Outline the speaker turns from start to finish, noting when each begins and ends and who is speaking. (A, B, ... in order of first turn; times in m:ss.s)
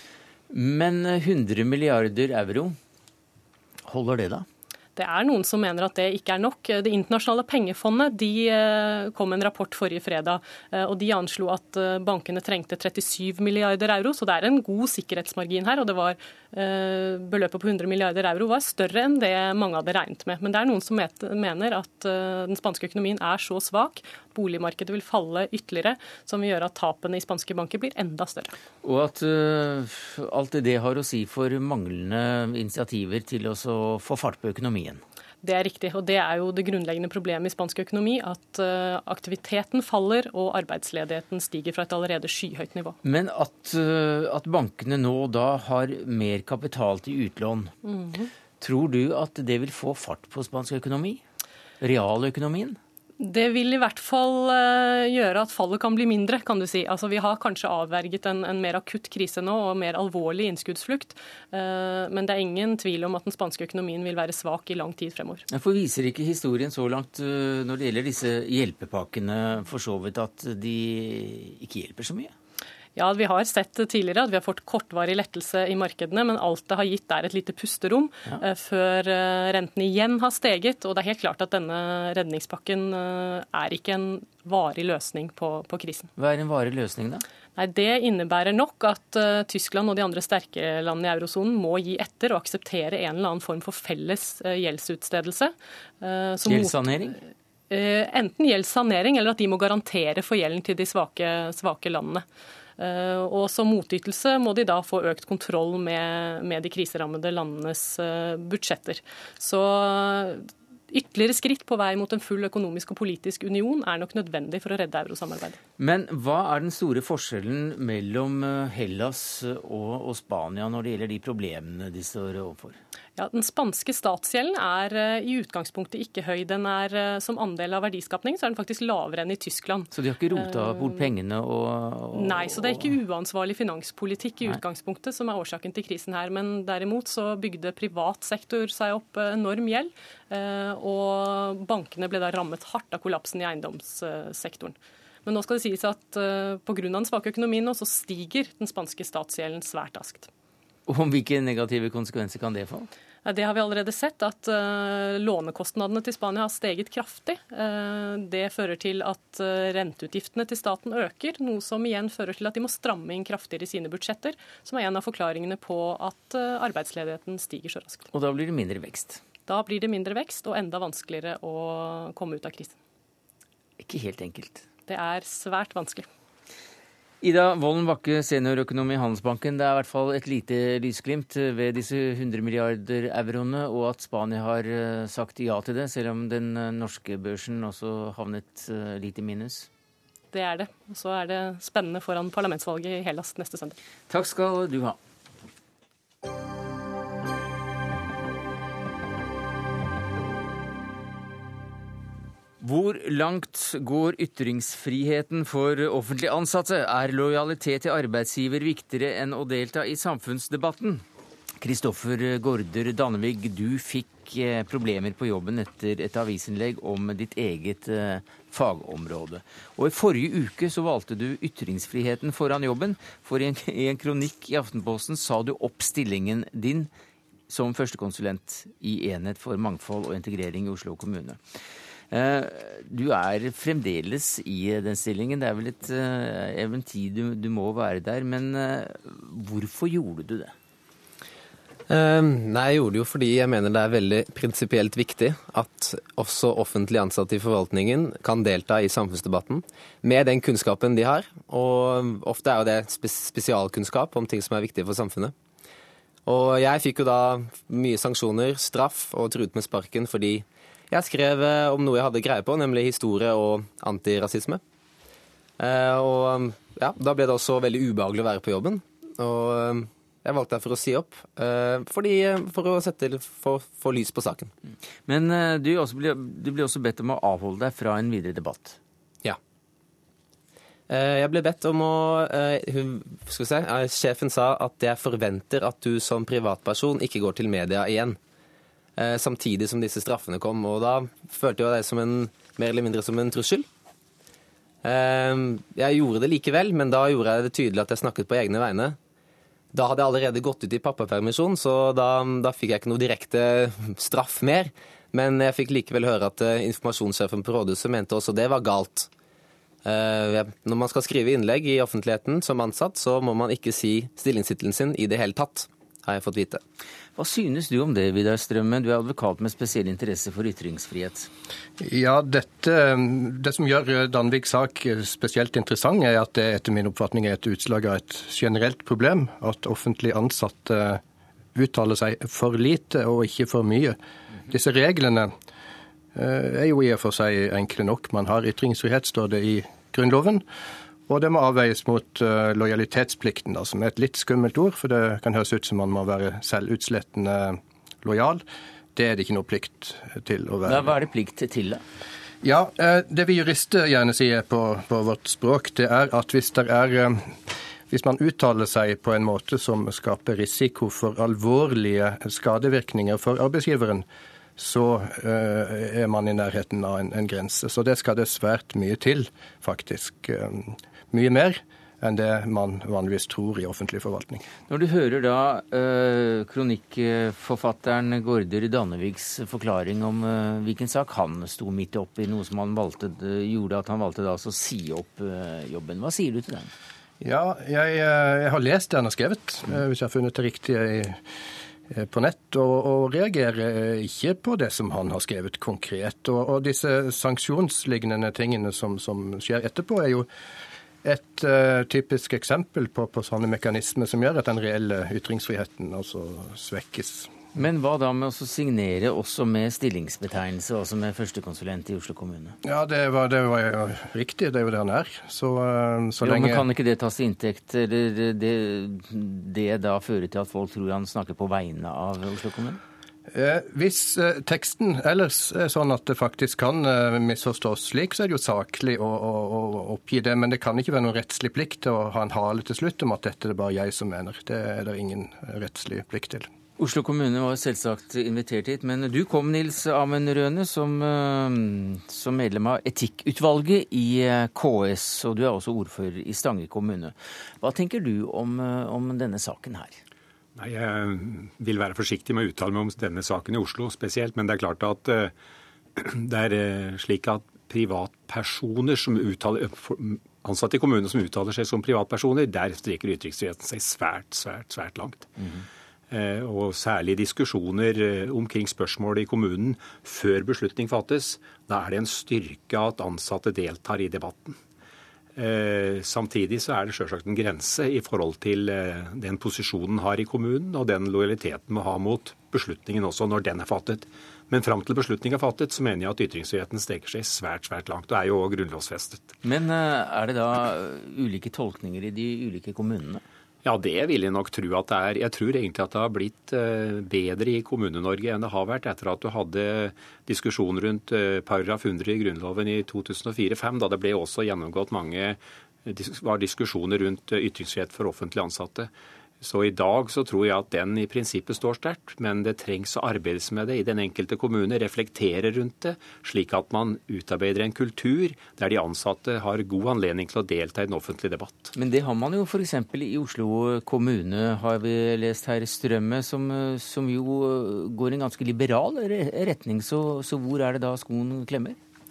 0:00.5-0:02.8 A
0:03.9-0:04.5 A
0:05.0-0:28.5 B
0:28.8-0:35.0 A
0:35.4-0:43.0 B
0:43.0-0:47.7 A
0:47.8-0:48.3 B
0:48.6-0:51.2 A
0:51.8-0:52.8 A
0:53.2-1:05.4 B
1:05.5-1:12.3 A
1:13.0-1:26.1 B
1:26.2-1:27.2 A
1:27.6-1:37.1 B
1:36.4-1:37.2 A
1:37.7-1:42.2 B
1:42.8-1:55.6 B
1:55.8-2:02.8 A
2:03.2-2:11.1 B
2:09.9-2:13.0 A
2:12.1-2:30.3 B
2:30.9-2:32.9 A
2:33.2-2:48.1 B
2:48.1-2:49.2 A
2:49.5-2:52.8 B
2:53.8-2:54.6 A
2:54.9-2:56.1 B
2:57.2-3:09.7 A
3:10.3-3:13.8 B
3:14.1-3:15.0 A
3:22.6-3:31.0 A
3:31.6-3:46.9 A
3:47.5-3:51.4 A
3:52.1-4:00.5 A
4:01.9-4:15.3 C
4:16.3-4:24.6 C
4:25.6-4:34.5 C
4:35.1-4:38.8 A
4:40.9-4:48.2 C
4:49.0-4:53.7 C
4:54.8-4:59.0 C
4:59.7-5:09.1 C
5:09.8-5:16.6 C
5:17.2-5:21.3 A
5:21.8-5:31.0 D
5:31.6-5:34.0 D
5:34.5-5:35.3 D
5:36.2-5:40.4 D
5:41.1-5:48.4 D
5:49.0-5:51.0 D
5:50.7-5:51.8 A
5:52.4-6:04.1 D
6:04.6-6:14.5 D
6:14.7-6:26.7 A
6:27.2-6:31.2 D
6:31.9-6:40.3 D
6:41.0-6:47.3 D
6:47.6-6:52.6 A
6:52.6-6:56.7 D
6:56.2-7:02.8 A
7:03.3-7:16.5 D
7:16.8-7:30.0 A
7:30.6-7:35.3 E
7:36.0-7:45.3 E
7:46.1-7:54.6 E
7:55.4-8:09.3 E
8:09.4-8:13.2 A
8:13.6-8:28.9 E
8:29.4-8:41.7 E
8:41.8-8:51.8 A